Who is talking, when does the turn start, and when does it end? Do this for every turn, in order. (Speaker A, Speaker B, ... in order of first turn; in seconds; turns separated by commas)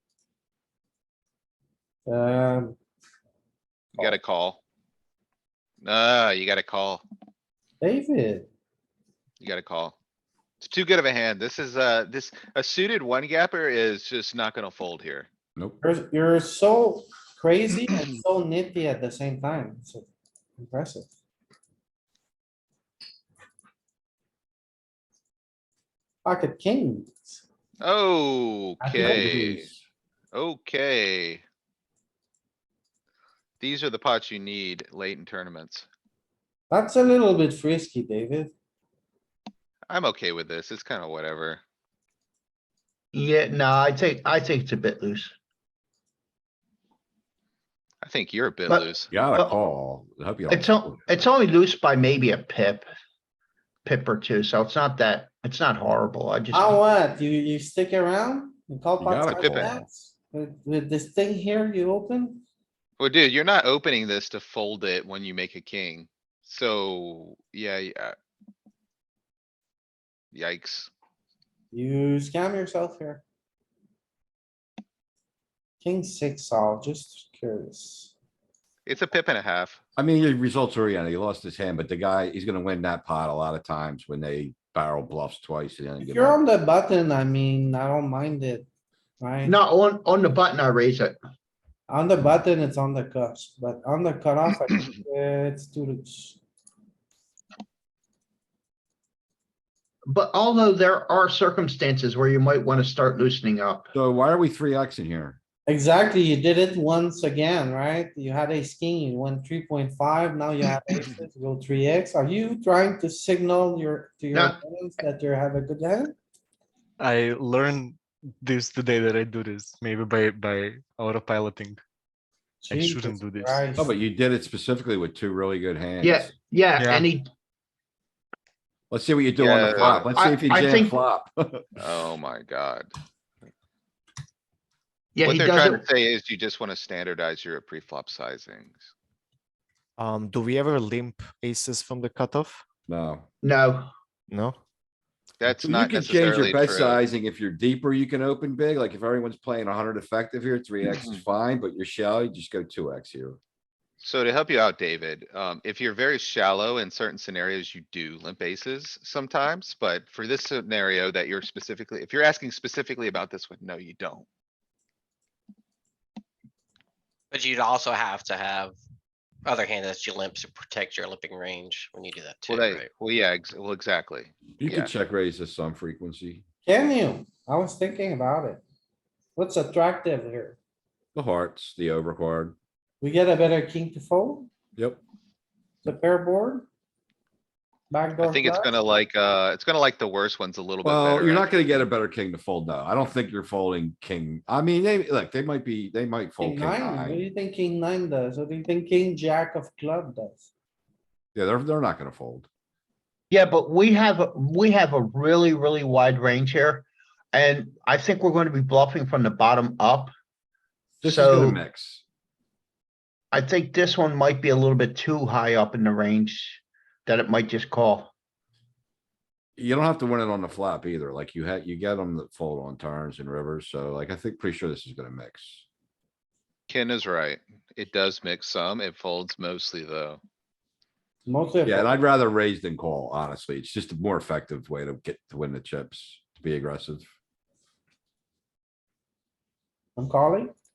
Speaker A: 2.1-2.8, Speaker B: 4.0-4.6, Speaker B: 5.8-7.0, Speaker A: 7.8-8.5, Speaker B: 9.4-10.0, Speaker B: 10.6-15.3, Speaker A: 15.8-20.1, Speaker A: 20.6-21.1, Speaker A: 26.2-27.4, Speaker B: 27.8-29.7, Speaker A: 28.8-29.7, Speaker B: 30.3-31.4, Speaker B: 33.6-35.9, Speaker A: 36.7-38.5, Speaker B: 39.9-41.6, Speaker C: 43.1-45.3, Speaker B: 48.0-49.1, Speaker C: 48.7-49.6, Speaker D: 49.1-51.0, Speaker C: 50.5-52.9, Speaker C: 53.9-56.8, Speaker A: 56.5-62.4, Speaker D: 59.0-59.8, Speaker B: 59.4-59.8, Speaker B: 63.0-68.1, Speaker B: 70.3-70.9, Speaker A: 71.7-73.2, Speaker A: 75.8-78.1, Speaker B: 78.9-79.8, Speaker D: 80.0-86.4, Speaker A: 86.0-88.7, Speaker A: 89.2-89.5, Speaker C: 89.5-91.2, Speaker A: 91.9-96.4, Speaker C: 100.1-103.9, Speaker D: 103.9-105.4, Speaker A: 105.7-116.2, Speaker E: 117.0-121.8, Speaker A: 122.6-123.9, Speaker E: 122.7-123.6, Speaker D: 123.8-126.3, Speaker C: 126.0-127.3, Speaker E: 126.8-127.1, Speaker D: 128.9-131.8, Speaker B: 129.4-130.1, Speaker C: 129.8-131.0, Speaker B: 131.8-132.9, Speaker C: 135.2-135.8, Speaker B: 135.2-138.9, Speaker F: 140.0-142.6, Speaker D: 142.9-143.3, Speaker C: 143.4-143.9, Speaker F: 144.3-144.6, Speaker B: 145.4-147.0, Speaker D: 145.6-153.4, Speaker B: 154.0-164.3, Speaker G: 167.3-168.8, Speaker G: 169.4-172.9, Speaker B: 172.5-174.9, Speaker D: 174.6-176.4, Speaker A: 176.7-178.6, Speaker A: 179.4-180.6, Speaker D: 181.2-182.6, Speaker A: 183.0-184.5, Speaker D: 184.8-185.0, Speaker A: 185.8-186.7, Speaker A: 187.9-188.8, Speaker B: 188.2-191.9, Speaker D: 190.8-197.2, Speaker A: 196.4-200.5, Speaker D: 201.3-202.5, Speaker C: 203.3-210.1, Speaker D: 211.0-212.0, Speaker C: 211.0-211.6, Speaker C: 213.3-218.1, Speaker D: 219.6-225.6, Speaker B: 226.7-230.2, Speaker A: 231.3-231.9, Speaker D: 231.7-237.1, Speaker A: 240.0-240.5